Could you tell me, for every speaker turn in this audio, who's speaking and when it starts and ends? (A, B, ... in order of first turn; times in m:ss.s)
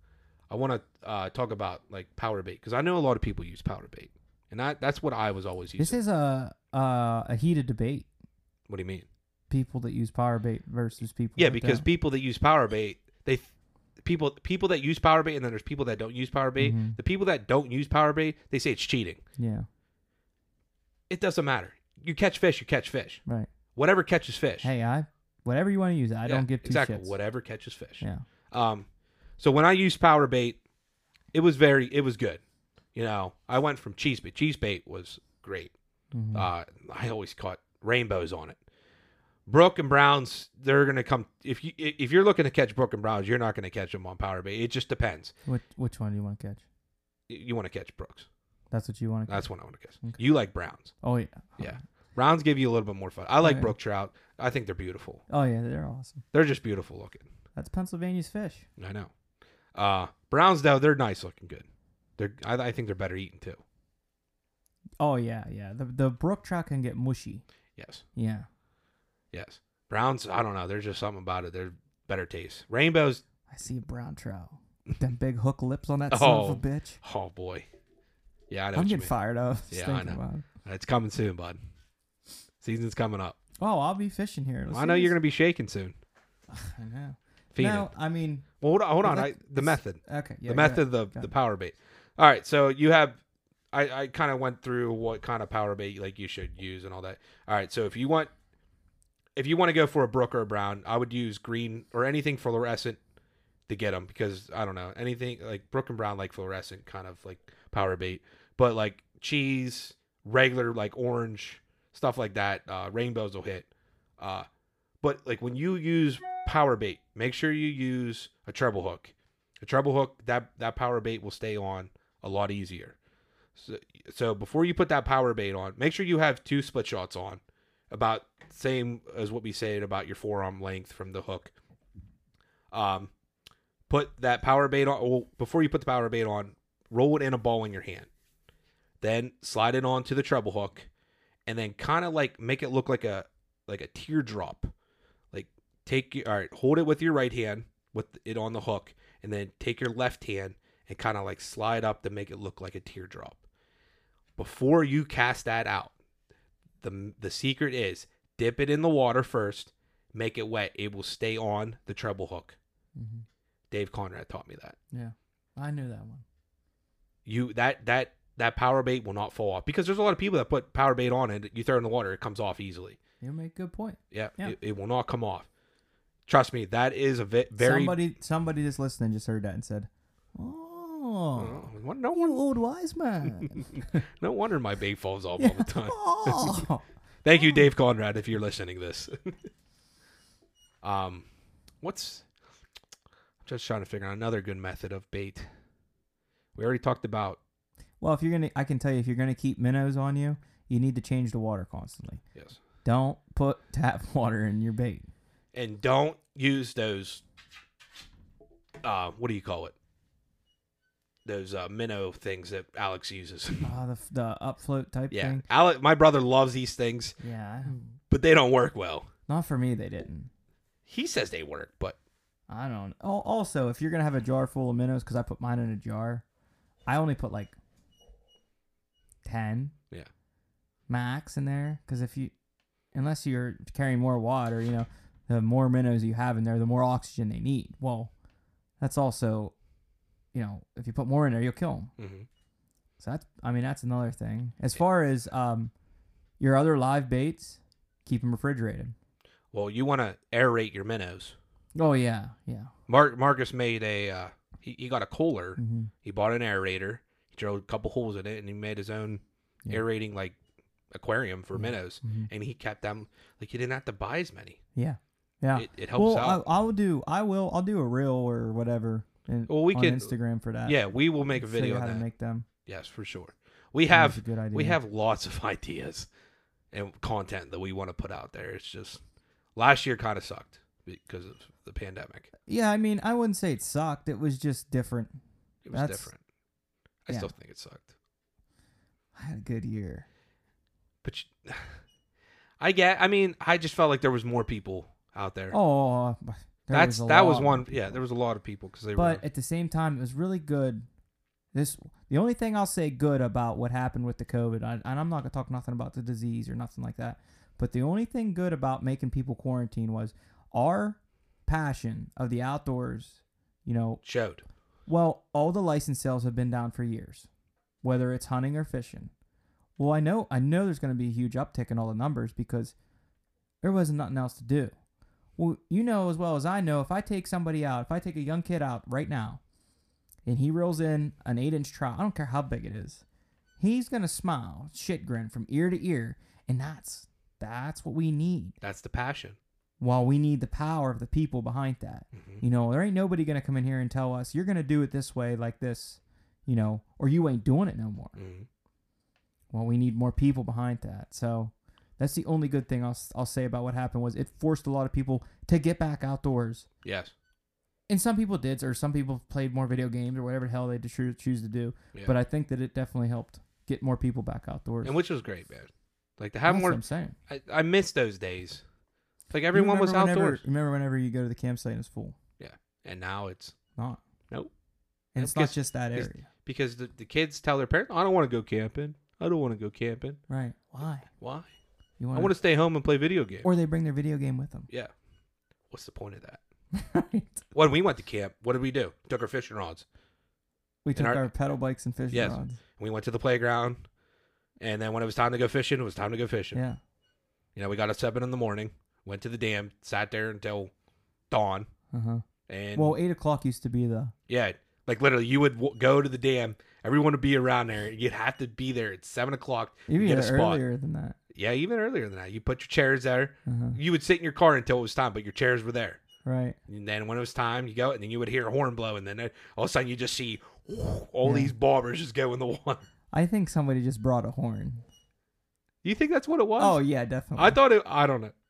0:00.5-0:06.0 A
0:05.8-0:08.1 B
0:08.7-0:09.0 A
0:09.5-0:11.8 B
0:11.4-0:13.5 A
0:14.0-0:19.2 A
0:16.6-0:17.0 B
0:19.4-0:19.7 B
0:21.1-0:23.2 A
0:23.7-0:24.7 A
0:24.6-0:27.2 B
0:26.2-0:28.9 A
0:29.4-0:30.6 A
0:31.3-0:32.4 A
0:32.9-0:35.7 A
0:36.1-0:36.5 B
0:36.3-0:38.6 A
0:39.5-0:45.3 A
0:45.4-0:46.6 B
0:47.3-0:48.3 A
0:48.7-0:49.5 B
0:49.3-0:50.9 A
0:51.0-0:51.8 B
0:51.6-0:55.2 A
0:53.4-0:53.7 B
0:55.3-0:56.2 B
0:56.3-0:57.3 A
0:57.5-0:58.6 B
0:58.8-0:59.1 A
0:59.7-1:01.6 A
1:02.2-1:03.6 A
1:05.0-1:07.4 B
1:07.8-1:08.0 A
1:08.2-1:08.5 B
1:09.3-1:13.2 A
1:13.5-1:17.0 B
1:16.1-1:17.6 A
1:18.5-1:19.1 A
1:18.7-1:20.4 B
1:19.7-1:21.6 A
1:22.6-1:23.4 A
1:23.6-1:25.2 B
1:24.7-1:26.0 A
1:26.5-1:28.5 B
1:27.5-1:27.9 A
1:28.6-1:33.2 A
1:29.0-1:31.3 B
1:33.7-1:38.3 A
1:39.4-1:43.0 A
1:43.7-1:53.7 A
1:54.2-1:54.4 A
1:55.0-2:03.0 A
2:03.6-2:11.5 A
2:12.7-2:13.1 A
2:13.9-2:18.1 A
2:19.0-2:20.9 A
2:21.4-2:24.7 A
2:25.3-2:33.4 A
2:34.4-2:35.9 A
2:36.8-2:42.6 A
2:43.0-2:43.2 B
2:43.7-2:44.8 A
2:44.9-2:46.2 B
2:47.2-2:53.0 A
2:53.2-2:54.6 B
2:54.1-2:55.5 A
2:56.3-2:58.0 A
2:57.6-3:04.0 B
3:01.4-3:02.4 A
3:03.4-3:06.6 A
3:05.4-3:06.8 B
3:07.2-3:09.4 A
3:07.4-3:07.6 B
3:10.8-3:11.2 A
3:11.8-3:12.3 A
3:13.4-3:15.4 A
3:16.5-3:17.4 A
3:18.0-3:22.2 B
3:22.3-3:22.6 A
3:22.8-3:25.1 B
3:25.5-3:27.2 A
3:28.8-3:29.7 A
3:31.2-3:33.7 A
3:33.6-3:35.4 B
3:35.1-3:37.2 A
3:37.2-3:37.9 B
3:38.1-3:39.1 A
3:39.3-3:40.3 B
3:40.8-3:42.0 A
3:42.5-3:46.2 B
3:46.9-3:47.6 B
3:49.2-3:49.7 B
3:50.9-3:52.3 B
3:52.9-3:58.1 B
3:58.8-3:59.5 B
4:00.3-4:01.9 B
4:02.0-4:02.3 A
4:03.0-4:05.7 B
4:06.4-4:08.9 B
4:09.5-4:11.4 A
4:11.7-4:12.7 B
4:12.9-4:20.4 A
4:15.6-4:15.9 B
4:20.9-4:24.6 A
4:21.6-4:22.3 B
4:24.7-4:32.4 B
4:25.6-4:26.4 A
4:29.5-4:30.1 A
4:30.6-4:32.0 A
4:32.6-4:36.1 A
4:33.9-4:34.8 B
4:36.7-4:39.0 A
4:39.6-4:42.3 A
4:42.5-4:45.2 B
4:45.6-4:46.2 A
4:45.7-4:46.1 B
4:47.0-4:47.9 A
4:49.1-4:50.0 B
4:51.0-4:51.8 A
4:52.6-4:55.6 A
4:55.5-4:58.0 B
4:56.7-4:59.2 A
4:58.9-5:00.8 B
5:01.5-5:14.0 B
5:14.0-5:14.4 A
5:14.9-5:17.3 B
5:17.8-5:19.1 B
5:19.8-5:22.7 B
5:23.6-5:24.7 B
5:25.4-5:29.4 B
5:30.2-5:33.0 B
5:33.6-5:38.6 B
5:38.6-5:39.4 A
5:39.8-5:48.2 B
5:42.1-5:42.4 A
5:48.2-5:48.5 A
5:49.5-5:56.6 B
5:56.8-5:57.1 A
5:57.9-6:05.0 B
6:04.8-6:08.6 A
6:06.4-6:07.2 B
6:09.3-6:10.4 A
6:09.5-6:12.2 B
6:12.4-6:13.5 A
6:15.1-6:16.3 B
6:15.2-6:20.2 A
6:20.3-6:21.1 B
6:21.2-6:21.5 A
6:22.0-6:22.3 B
6:22.1-6:23.5 A
6:23.4-6:24.7 B
6:25.7-6:26.4 A
6:26.7-6:27.4 B
6:27.5-6:29.8 A
6:30.8-6:32.6 B
6:30.9-6:31.2 A
6:32.1-6:33.8 A
6:34.6-6:36.6 A
6:36.5-6:36.8 B
6:37.5-6:40.7 A
6:41.3-6:41.7 A
6:41.9-6:42.2 B
6:42.5-6:43.0 A
6:42.7-6:44.1 B
6:44.3-6:50.6 A
6:49.9-6:51.2 B
6:51.3-6:56.0 A
6:53.4-6:53.8 B
6:56.2-6:56.6 B
6:56.7-7:02.8 A
7:01.2-7:01.5 B
7:03.1-7:04.8 B
7:05.8-7:06.8 A
7:06.6-7:07.6 B
7:07.4-7:08.3 A